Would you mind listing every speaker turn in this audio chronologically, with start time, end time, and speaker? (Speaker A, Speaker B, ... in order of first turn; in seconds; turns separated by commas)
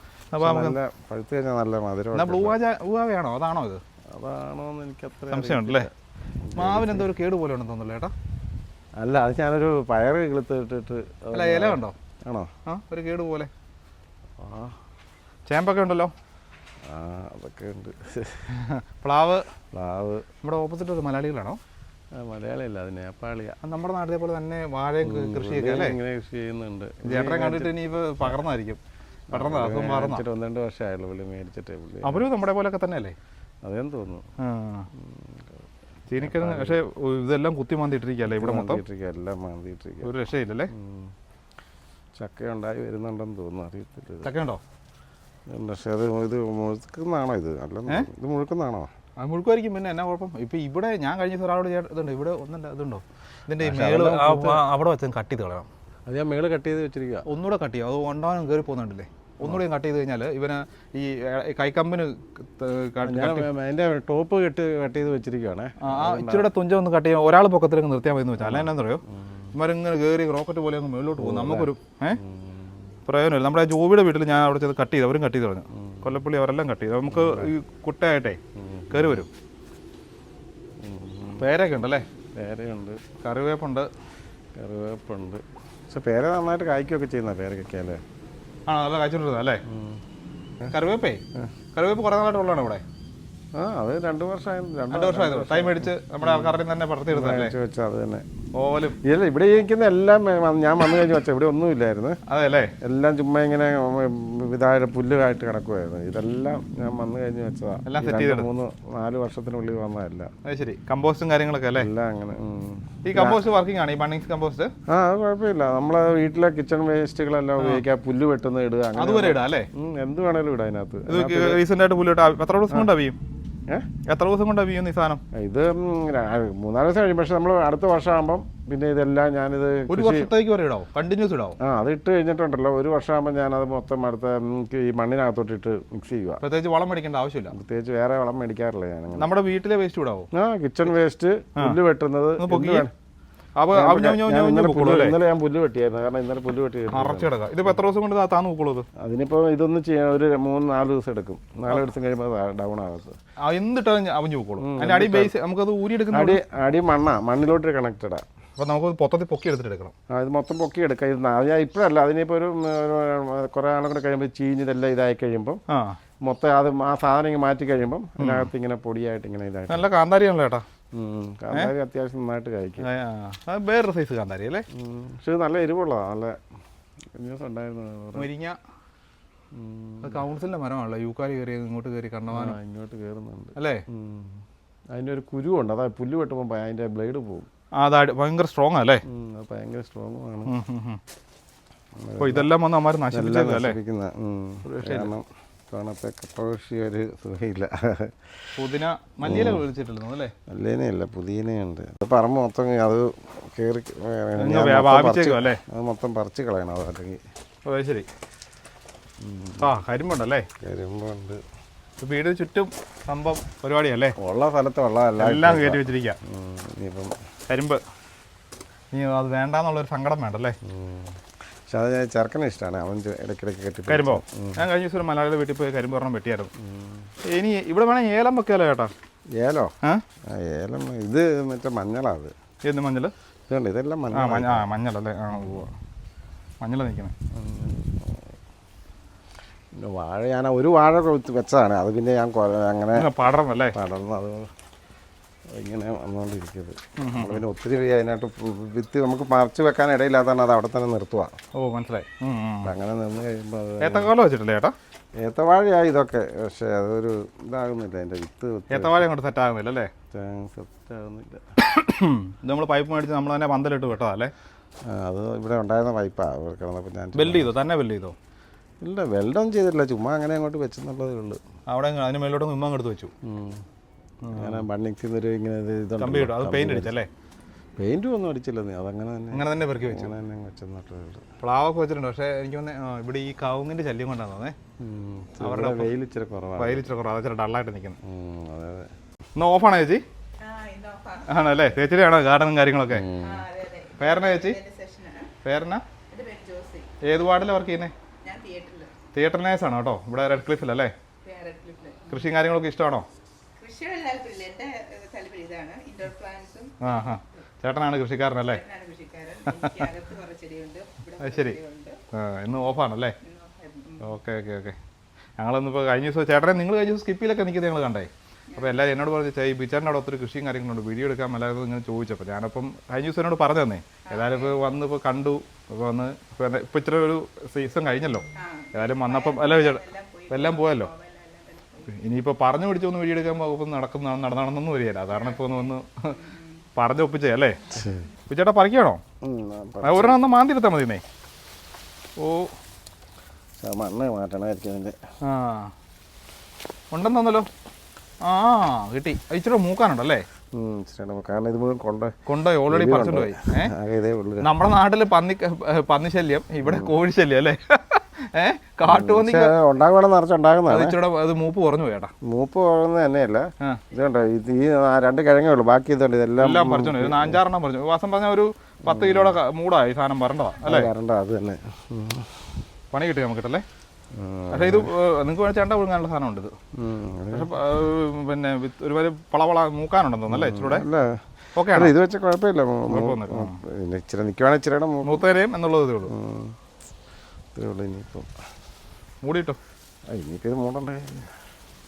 Speaker A: 0.3-0.8, Speaker B: 0.4-2.6, Speaker A: 2.1-3.8, Speaker B: 4.1-7.1, Speaker A: 5.3-5.9, Speaker A: 6.5-8.1, Speaker B: 9.0-12.5, Speaker A: 11.3-11.9, Speaker A: 12.7-13.5, Speaker B: 14.4-14.8, Speaker A: 15.5-16.1, Speaker B: 16.8-18.5, Speaker A: 18.5-19.4, Speaker B: 19.7-20.2, Speaker A: 20.4-21.6, Speaker B: 22.1-23.6, Speaker A: 23.6-26.0, Speaker B: 25.0-28.4, Speaker A: 27.0-28.8, Speaker B: 29.3-32.3, Speaker A: 29.3-30.2, Speaker A: 32.0-33.1, Speaker B: 33.6-34.2, Speaker A: 34.4-34.9, Speaker B: 34.9-35.6, Speaker A: 36.1-38.8, Speaker B: 36.2-36.8, Speaker B: 38.2-40.1, Speaker A: 40.0-40.7, Speaker B: 40.7-41.1, Speaker B: 42.1-44.3, Speaker A: 44.2-44.6, Speaker B: 45.5-48.9, Speaker A: 49.2-55.7, Speaker B: 53.6-54.6, Speaker B: 56.1-57.2, Speaker A: 57.2-63.5, Speaker B: 63.0-66.5, Speaker A: 65.8-69.0, Speaker B: 68.4-69.5, Speaker A: 69.5-72.2, Speaker B: 71.2-72.8, Speaker A: 73.0-78.4, Speaker B: 75.7-76.2, Speaker B: 77.1-77.5, Speaker B: 78.5-79.2, Speaker A: 78.9-79.3, Speaker B: 80.8-81.5, Speaker A: 81.4-82.0, Speaker B: 82.3-83.0, Speaker A: 83.2-83.9, Speaker B: 84.5-88.0, Speaker A: 88.7-89.6, Speaker B: 89.7-90.0, Speaker A: 90.7-91.2, Speaker A: 91.7-92.8, Speaker B: 93.5-98.2, Speaker A: 94.9-97.5, Speaker A: 98.5-99.0, Speaker B: 99.0-102.2, Speaker A: 102.3-102.7, Speaker B: 102.8-110.3, Speaker A: 107.8-108.5, Speaker A: 110.5-111.9, Speaker B: 111.8-113.5, Speaker A: 113.0-114.7, Speaker B: 114.9-121.6, Speaker A: 119.0-119.7, Speaker A: 121.1-123.2, Speaker A: 124.0-125.2, Speaker B: 125.3-130.3, Speaker A: 129.9-131.6, Speaker B: 131.6-136.4, Speaker A: 136.4-137.5, Speaker B: 137.5-139.3, Speaker A: 139.2-140.3, Speaker B: 140.3-142.9, Speaker A: 142.4-142.9, Speaker A: 143.6-145.2, Speaker B: 143.7-147.8, Speaker A: 146.9-148.8, Speaker B: 149.0-153.2, Speaker A: 153.4-156.4, Speaker B: 154.6-155.3, Speaker B: 156.1-158.2, Speaker A: 158.6-159.9, Speaker B: 160.1-165.6, Speaker A: 165.7-166.0, Speaker B: 166.2-169.9, Speaker A: 168.2-168.5, Speaker A: 169.7-170.6, Speaker B: 170.9-172.9, Speaker A: 172.8-174.6, Speaker B: 174.7-176.4, Speaker B: 177.1-178.3, Speaker A: 178.1-178.6, Speaker B: 179.5-180.2, Speaker A: 180.0-182.6, Speaker B: 182.3-184.4, Speaker A: 183.6-183.8, Speaker B: 184.9-187.5, Speaker A: 187.8-189.0, Speaker B: 189.1-190.5, Speaker A: 190.5-191.0, Speaker B: 192.0-192.5, Speaker A: 192.2-193.8, Speaker B: 193.1-198.3, Speaker A: 194.6-195.1, Speaker A: 198.6-200.3, Speaker B: 199.2-199.7, Speaker B: 200.5-207.2, Speaker A: 204.4-205.6, Speaker A: 207.6-208.1, Speaker B: 209.2-209.8, Speaker A: 209.6-210.5, Speaker B: 210.6-211.4, Speaker A: 212.0-214.1, Speaker B: 214.2-217.1, Speaker A: 215.2-216.2, Speaker A: 217.5-217.8, Speaker A: 218.9-220.6, Speaker B: 220.6-224.7, Speaker A: 223.9-226.5, Speaker B: 226.6-227.1, Speaker A: 227.2-228.9, Speaker B: 229.3-229.7, Speaker B: 230.3-232.3, Speaker A: 232.6-233.1, Speaker B: 233.5-234.7, Speaker A: 234.1-235.7, Speaker B: 235.3-235.7, Speaker A: 236.6-237.1, Speaker B: 237.3-238.3, Speaker B: 239.7-243.1, Speaker A: 242.9-243.8, Speaker B: 243.7-244.5, Speaker B: 245.5-251.3, Speaker A: 247.0-247.4, Speaker A: 251.5-252.7, Speaker B: 252.6-254.1, Speaker A: 253.8-254.7, Speaker B: 255.2-259.1, Speaker A: 258.7-259.9, Speaker B: 260.1-261.4, Speaker A: 261.6-264.3, Speaker B: 264.9-267.6, Speaker A: 267.1-268.1, Speaker B: 268.8-271.4, Speaker A: 271.7-273.1, Speaker B: 273.2-273.6, Speaker A: 274.2-274.6, Speaker B: 274.3-276.9, Speaker A: 276.0-277.1, Speaker B: 277.8-281.2, Speaker A: 279.3-280.1, Speaker A: 281.4-284.5, Speaker B: 284.8-286.9, Speaker A: 285.4-285.9, Speaker A: 286.6-288.0, Speaker B: 288.0-288.9, Speaker A: 289.4-290.0, Speaker C: 290.4-291.3, Speaker A: 291.2-293.1, Speaker B: 292.9-293.5, Speaker C: 293.2-295.3, Speaker A: 294.0-294.6, Speaker A: 295.4-295.8, Speaker C: 296.1-296.9, Speaker A: 297.0-297.9, Speaker C: 298.2-298.9, Speaker A: 299.1-300.9, Speaker C: 301.2-302.2, Speaker A: 302.1-303.1, Speaker C: 303.6-306.9, Speaker A: 306.8-308.6, Speaker C: 308.5-312.0, Speaker A: 309.4-309.9, Speaker A: 311.2-311.6, Speaker A: 312.1-313.1, Speaker C: 313.2-314.1, Speaker A: 314.0-314.8, Speaker A: 315.4-330.9, Speaker C: 318.5-318.8, Speaker C: 324.1-324.6, Speaker C: 328.3-332.1, Speaker A: 331.9-336.2, Speaker C: 335.1-336.6, Speaker A: 336.8-339.0, Speaker B: 337.7-338.1, Speaker B: 339.2-340.2, Speaker A: 339.8-341.0, Speaker A: 342.2-342.5, Speaker B: 343.6-345.0, Speaker A: 345.2-345.7, Speaker A: 346.9-347.5, Speaker A: 348.2-350.2, Speaker B: 350.5-352.1, Speaker A: 352.3-353.7, Speaker B: 352.7-354.5, Speaker A: 354.4-359.5, Speaker B: 356.6-356.9, Speaker B: 358.9-361.0, Speaker A: 360.7-362.1, Speaker B: 362.2-367.4, Speaker A: 366.4-370.9, Speaker B: 368.8-369.4, Speaker B: 370.6-372.6, Speaker A: 372.9-373.6, Speaker B: 374.1-374.9, Speaker A: 374.5-376.5, Speaker B: 376.7-377.5, Speaker A: 377.3-380.9, Speaker B: 380.3-385.2, Speaker A: 381.6-381.9, Speaker A: 382.9-383.6, Speaker A: 385.0-386.1, Speaker B: 386.1-386.6, Speaker B: 387.5-388.3, Speaker A: 389.2-389.6, Speaker B: 390.1-391.3